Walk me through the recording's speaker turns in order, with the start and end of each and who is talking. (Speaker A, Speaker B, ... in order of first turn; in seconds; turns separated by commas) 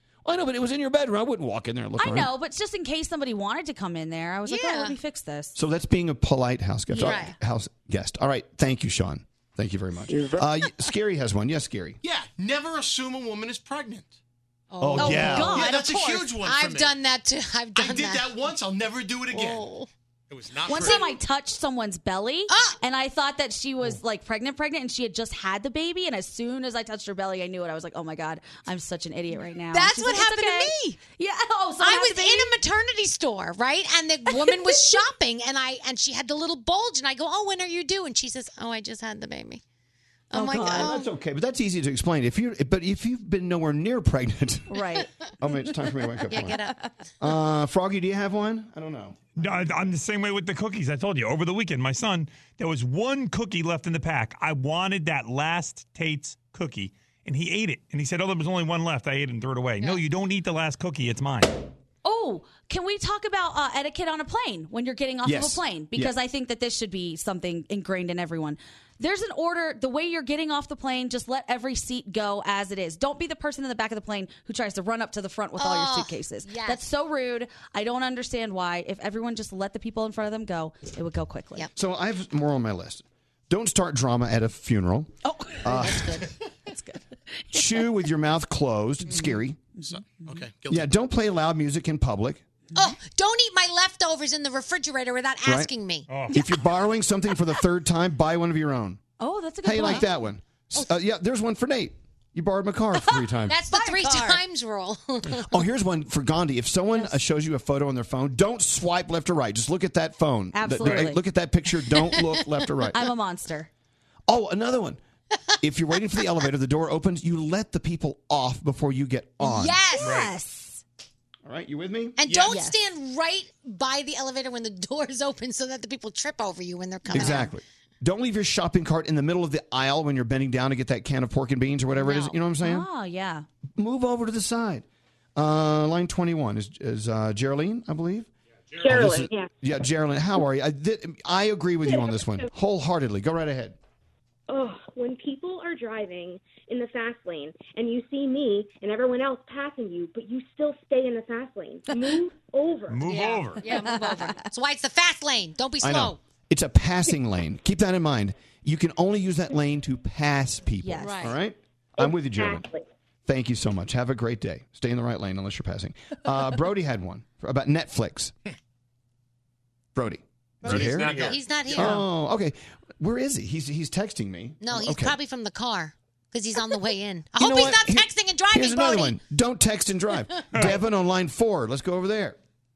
Speaker A: 0.2-2.3, Speaker B: 2.0-5.6, Speaker C: 4.5-5.0, Speaker A: 5.5-12.0, Speaker C: 7.0-7.3, Speaker D: 12.0-14.2, Speaker C: 14.7-18.4, Speaker A: 14.8-15.6, Speaker D: 15.0-17.0, Speaker B: 15.0-16.3, Speaker D: 17.8-19.7, Speaker C: 19.3-19.9, Speaker D: 20.3-21.1, Speaker B: 20.7-32.5, Speaker C: 20.7-21.1, Speaker C: 22.5-22.8, Speaker C: 29.7-30.8, Speaker C: 31.8-39.6, Speaker B: 34.4-34.8, Speaker C: 40.3-41.1, Speaker B: 40.3-41.0, Speaker A: 40.7-44.8, Speaker B: 44.7-46.5, Speaker A: 45.4-46.6, Speaker C: 46.3-46.8, Speaker A: 47.2-49.5, Speaker E: 49.4-61.6, Speaker B: 62.0-81.7, Speaker A: 65.2-66.1, Speaker C: 75.6-76.8, Speaker A: 81.8-85.1, Speaker B: 85.2-85.6, Speaker A: 85.6-86.2, Speaker C: 85.7-86.3, Speaker B: 86.7-87.6, Speaker A: 87.5-89.6, Speaker B: 89.1-90.3, Speaker D: 89.8-90.9, Speaker A: 90.7-92.4, Speaker C: 92.8-96.1, Speaker E: 96.1-96.5, Speaker A: 96.3-99.0, Speaker B: 99.2-100.1, Speaker A: 99.6-103.6, Speaker C: 103.5-105.6, Speaker B: 103.7-104.4, Speaker A: 105.4-113.0, Speaker B: 110.5-111.2, Speaker E: 110.8-111.1, Speaker B: 112.9-113.7, Speaker A: 114.3-115.0, Speaker A: 115.6-119.8, Speaker C: 119.4-120.2, Speaker B: 120.0-120.8, Speaker E: 120.0-120.3, Speaker A: 121.5-122.2, Speaker C: 122.2-127.5, Speaker D: 122.3-122.6, Speaker B: 122.5-122.8, Speaker A: 127.1-132.9, Speaker C: 132.0-132.3, Speaker B: 132.6-133.5, Speaker A: 133.8-134.8, Speaker A: 135.4-138.3, Speaker A: 138.8-143.8, Speaker F: 139.1-139.5, Speaker F: 144.5-153.1, Speaker B: 151.9-152.2, Speaker E: 152.9-153.6, Speaker C: 153.1-156.2, Speaker B: 153.6-154.4, Speaker A: 155.8-162.7, Speaker B: 160.8-161.3, Speaker C: 161.0-161.3, Speaker F: 162.3-162.8, Speaker A: 163.3-168.3, Speaker A: 169.9-175.2, Speaker C: 170.7-172.0, Speaker C: 174.6-179.2, Speaker A: 177.4-182.4